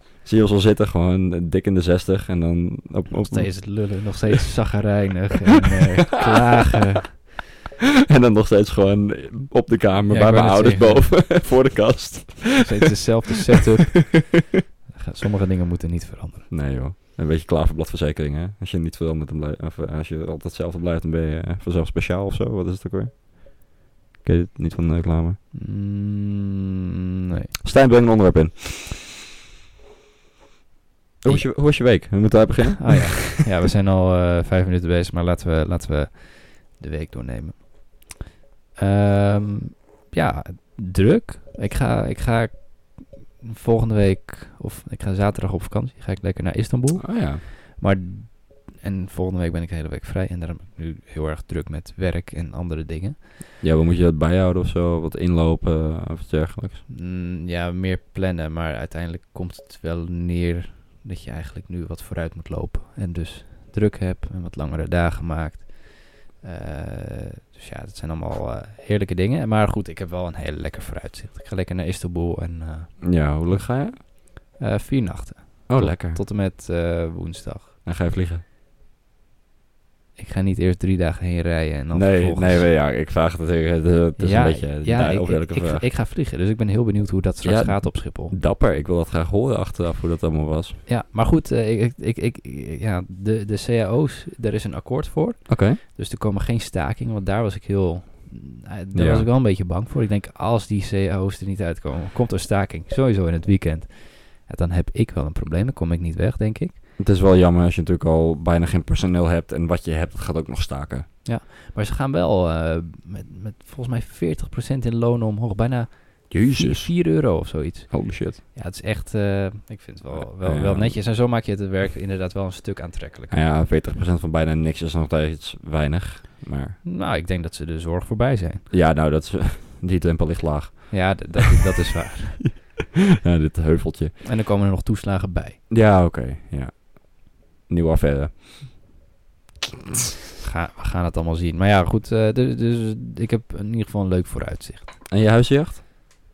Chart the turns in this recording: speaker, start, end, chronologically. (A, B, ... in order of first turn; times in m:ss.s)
0:00.2-0:04.2 A
0:03.3-0:07.3 B
0:08.1-0:13.1 A
0:10.1-0:11.2 B
0:12.6-0:16.5 B
0:16.5-0:25.4 A
0:25.5-0:27.6 B
0:27.6-0:28.9 A
0:31.2-0:33.4 A
0:31.2-0:32.1 B
0:32.7-0:38.1 B
0:38.8-0:53.2 B
0:47.0-0:47.4 A
0:53.6-0:56.8 A
0:56.9-1:17.7 B
1:13.0-1:14.0 A
1:15.7-1:16.2 A
1:17.8-1:18.4 A
1:20.2-1:22.7 B
1:21.9-1:25.8 A
1:24.2-1:28.4 B
1:27.4-1:30.8 A
1:30.8-1:46.8 B
1:35.5-1:35.8 A
1:38.9-1:39.3 A
1:47.0-1:51.1 A
1:51.2-2:03.4 B
1:56.3-1:58.4 A
2:00.1-2:01.1 A
2:03.3-2:06.8 A
2:06.8-2:08.7 B
2:08.7-2:11.4 A
2:10.9-2:12.5 B
2:13.2-2:14.2 A
2:14.2-2:15.6 B
2:15.7-2:18.9 A
2:20.4-2:25.0 B
2:25.1-2:25.8 A